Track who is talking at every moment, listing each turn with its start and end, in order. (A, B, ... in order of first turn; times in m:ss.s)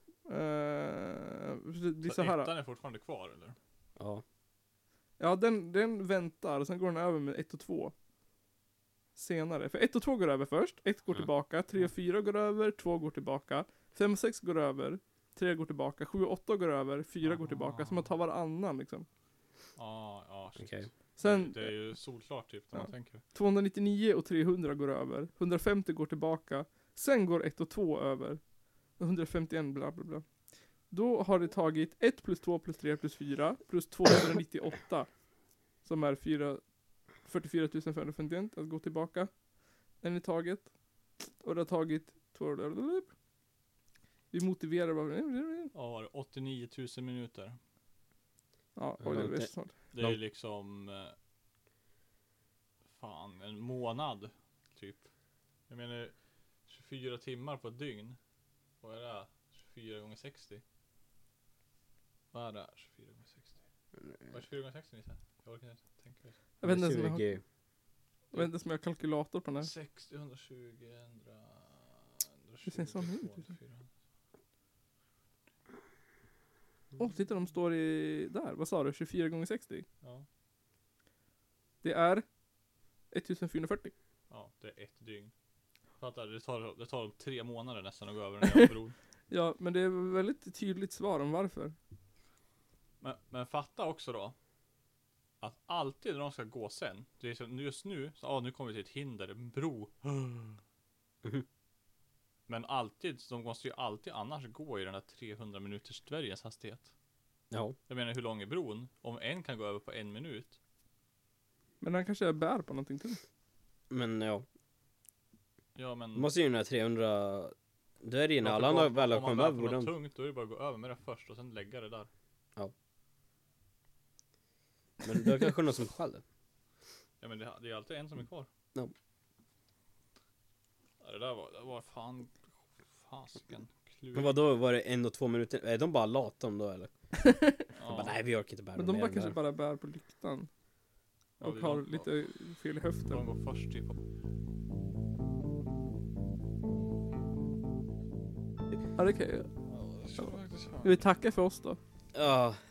0:00.3-0:02.5 A
0:02.0-0:03.6 B
0:04.0-0:04.2 C
0:05.2-0:07.9 A
0:09.2-0:19.1 A
0:17.2-0:18.1 B
0:19.8-0:23.2 B
0:20.6-0:20.9 C
0:21.2-0:21.7 A
0:22.8-0:28.4 A
0:29.0-0:30.3 A
0:30.9-0:35.1 A
0:35.8-0:36.6 A
0:37.2-0:39.3 A
0:40.0-0:40.7 A
0:41.3-0:43.1 A
0:44.3-0:45.7 A
0:45.7-0:47.6 B
0:48.8-0:49.7 A
0:49.0-0:50.2 C
0:49.9-0:51.2 B
0:52.9-0:55.1 B
0:55.7-0:56.2 B
0:56.7-0:58.2 B
0:58.8-1:00.6 B
1:02.3-1:03.6 B
1:04.3-1:06.4 B
1:06.6-1:07.2 A
1:06.6-1:07.4 C
1:08.3-1:09.7 A
1:09.6-1:13.9 B
1:12.7-1:13.5 A
1:17.0-1:19.9 A
1:21.8-1:22.2 A
1:23.1-1:23.9 A
1:24.3-1:25.3 B
1:26.0-1:29.0 B
1:29.3-1:31.8 A
1:33.0-1:34.4 B
1:35.4-1:40.6 B
1:42.5-1:46.9 B
1:47.5-1:47.8 C
1:47.9-1:50.6 B
1:51.8-1:53.2 A
1:53.9-1:54.4 C
1:55.8-1:56.3 B
1:56.2-1:59.9 C
1:58.4-2:02.1 B
2:05.0-2:06.2 C
2:07.2-2:08.5 B
2:11.0-2:14.4 B
2:14.1-2:16.9 C
2:17.1-2:17.6 A
2:17.8-2:18.2 B
2:17.9-2:19.4 C
2:18.8-2:20.5 A
2:21.4-2:22.1 B
2:21.4-2:23.2 A
2:23.1-2:24.0 B
2:29.0-2:29.5 A
2:29.7-2:31.0 B
2:30.8-2:31.8 A
2:32.1-2:32.6 C